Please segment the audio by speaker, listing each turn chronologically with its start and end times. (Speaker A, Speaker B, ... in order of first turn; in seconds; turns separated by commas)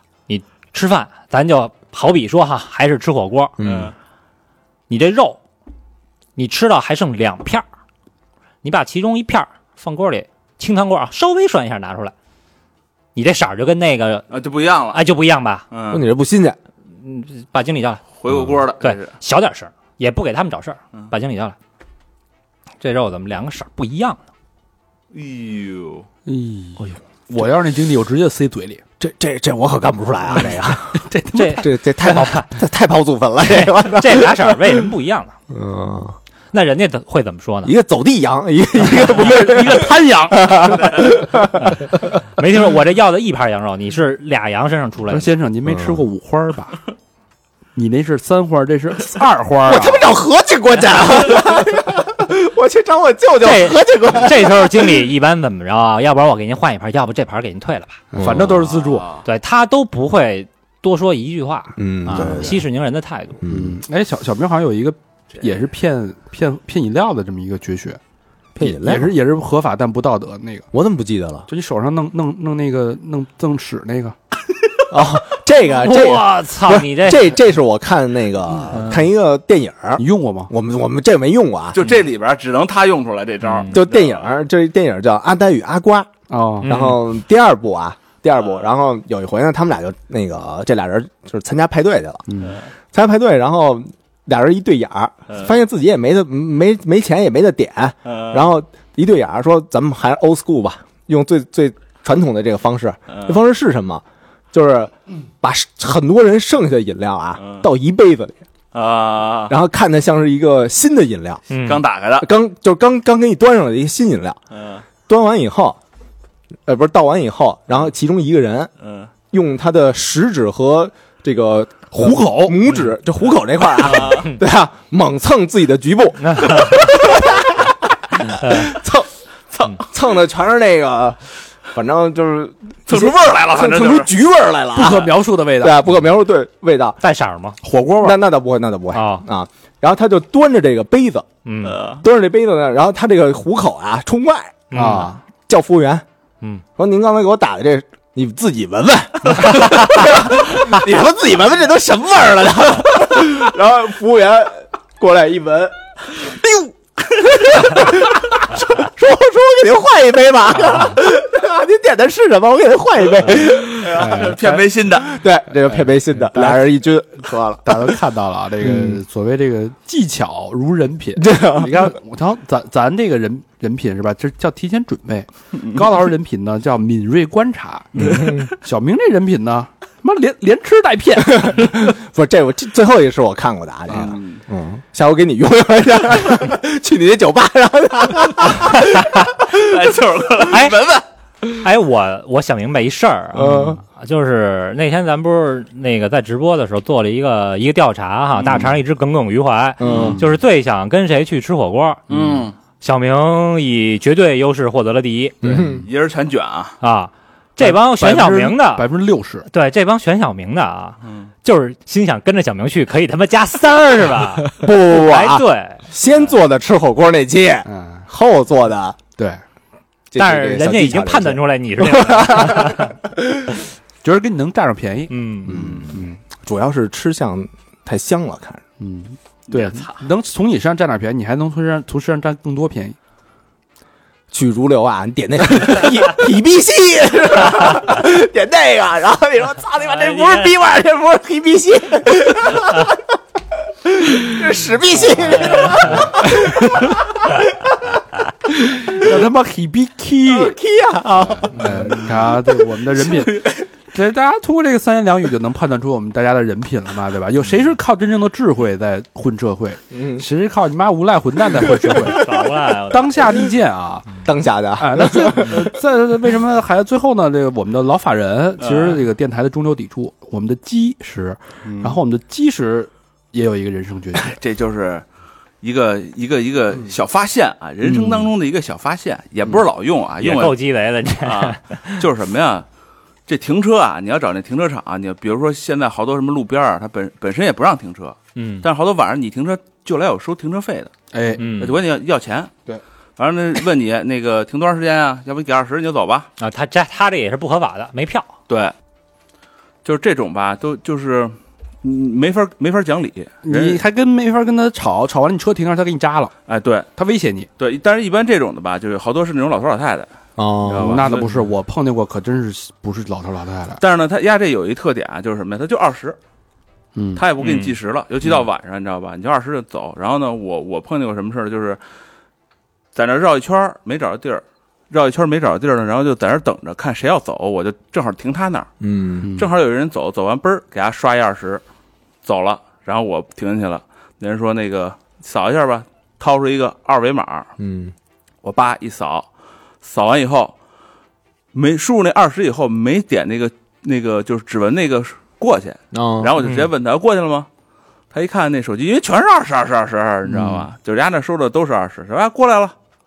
Speaker A: 0.3-3.5, Speaker B: 3.6-3.9, Speaker C: 3.6-3.9, Speaker A: 4.9-5.4, Speaker A: 6.4-7.7, Speaker A: 8.6-12.1, Speaker A: 13.2-14.3, Speaker C: 14.3-15.0, Speaker A: 14.9-15.7, Speaker C: 15.7-16.1, Speaker B: 15.9-16.6, Speaker A: 17.0-18.0, Speaker C: 18.2-19.1, Speaker A: 18.8-21.6, Speaker A: 22.8-24.2, Speaker C: 25.1-26.1, Speaker D: 26.3-28.8, Speaker B: 29.0-34.9, Speaker D: 30.9-31.7, Speaker A: 31.3-32.5, Speaker A: 33.5-35.4, Speaker B: 35.5-36.2, Speaker A: 36.5-37.7, Speaker B: 37.6-42.0, Speaker D: 38.9-40.9, Speaker A: 42.4-45.3, Speaker D: 45.1-46.8, Speaker B: 45.7-46.0, Speaker D: 47.8-50.0, Speaker B: 49.6-55.0, Speaker A: 53.4-58.0, Speaker D: 58.1-59.1, Speaker B: 58.1-58.7, Speaker C: 58.5-59.2, Speaker A: 59.2-63.4, Speaker B: 61.8-62.6, Speaker D: 62.2-62.5, Speaker B: 63.4-63.8, Speaker D: 63.5-68.0, Speaker B: 68.5-69.2, Speaker D: 68.6-70.7, Speaker B: 70.7-71.5, Speaker D: 71.5-74.2, Speaker B: 74.9-81.8, Speaker A: 75.7-77.4, Speaker A: 78.7-79.0, Speaker D: 80.0-80.5, Speaker C: 81.7-84.3, Speaker A: 83.5-83.8, Speaker B: 83.7-86.1, Speaker D: 86.3-86.8, Speaker A: 86.6-87.0, Speaker B: 86.6-92.2, Speaker D: 92.3-92.6, Speaker B: 92.9-108.4, Speaker C: 98.1-98.4, Speaker C: 103.1-103.4, Speaker C: 107.4-107.7, Speaker C: 108.7-109.5, Speaker B: 109.5-111.5, Speaker A: 111.5-111.8, Speaker C: 111.6-112.3, Speaker B: 112.2-114.4, Speaker C: 114.5-114.8, Speaker B: 115.1-115.8, Speaker B: 116.7-118.7, Speaker C: 118.8-119.1, Speaker B: 119.3-129.1, Speaker D: 121.9-122.6, Speaker C: 123.9-124.3, Speaker A: 126.3-126.8, Speaker A: 128.4-128.7, Speaker C: 129.5-129.8, Speaker B: 129.7-137.0, Speaker C: 132.9-134.1, Speaker D: 134.7-135.8, Speaker A: 137.0-137.6, Speaker D: 137.6-138.2, Speaker B: 138.0-141.3, Speaker A: 138.9-139.2, Speaker A: 141.4-141.8, Speaker C: 141.7-142.0, Speaker B: 142.0-144.7, Speaker A: 144.7-145.1, Speaker D: 144.7-145.2, Speaker B: 145.5-146.1, Speaker B: 146.8-156.6, Speaker B: 157.3-164.2, Speaker C: 163.3-165.2, Speaker D: 163.9-164.6, Speaker B: 164.9-168.0, Speaker D: 165.8-166.7, Speaker D: 167.7-181.9, Speaker B: 168.6-169.0, Speaker B: 171.2-171.9, Speaker B: 178.0-178.5, Speaker B: 181.2-189.5, Speaker C: 183.9-184.4, Speaker C: 189.5-191.1, Speaker A: 190.5-190.8, Speaker A: 191.6-202.0, Speaker B: 193.3-193.8, Speaker B: 199.8-200.2, Speaker C: 199.8-200.2, Speaker D: 199.9-200.2, Speaker C: 202.1-202.5, Speaker A: 202.8-205.4, Speaker B: 205.4-205.9, Speaker D: 205.4-205.8, Speaker C: 205.8-206.8, Speaker A: 206.8-208.9, Speaker D: 207.6-209.5, Speaker A: 209.5-215.8, Speaker B: 214.5-219.0, Speaker D: 217.7-218.1, Speaker B: 220.1-222.9, Speaker A: 220.2-222.9, Speaker D: 224.0-226.2, Speaker A: 225.1-225.6, Speaker B: 225.5-228.6, Speaker D: 228.8-233.0, Speaker C: 229.5-230.0, Speaker B: 234.3-243.0, Speaker B: 243.8-247.4, Speaker D: 245.9-247.0, Speaker D: 248.6-250.6, Speaker B: 250.3-252.0, Speaker D: 251.5-264.2, Speaker C: 253.0-253.6, Speaker B: 259.9-260.3, Speaker A: 262.1-263.2, Speaker B: 264.2-265.7, Speaker D: 264.8-274.4, Speaker C: 268.6-269.0, Speaker C: 271.6-272.0, Speaker C: 274.1-275.0, Speaker C: 275.6-280.6, Speaker D: 277.8-278.3, Speaker A: 280.2-282.0, Speaker C: 281.2-282.7, Speaker C: 283.3-292.5, Speaker A: 288.4-288.7, Speaker D: 291.1-291.5, Speaker A: 291.4-291.8, Speaker C: 293.2-296.3, Speaker A: 296.4-298.3, Speaker C: 298.5-298.7, Speaker C: 299.8-303.8, Speaker D: 303.4-306.3, Speaker C: 306.5-306.9, Speaker D: 307.0-307.5, Speaker C: 307.6-310.1, Speaker B: 310.4-311.1, Speaker C: 310.6-311.5, Speaker D: 310.8-313.8, Speaker C: 313.8-316.2, Speaker D: 316.9-317.2, Speaker C: 317.2-321.8, Speaker A: 317.4-317.8, Speaker C: 322.9-328.7, Speaker B: 328.8-329.3, Speaker D: 329.2-329.5, Speaker C: 329.4-331.6, Speaker C: 332.2-337.5, Speaker B: 337.6-337.9, Speaker C: 338.4-339.3, Speaker C: 339.8-340.6, Speaker C: 341.5-347.5, Speaker B: 345.9-346.3, Speaker A: 346.4-346.7, Speaker C: 348.1-352.8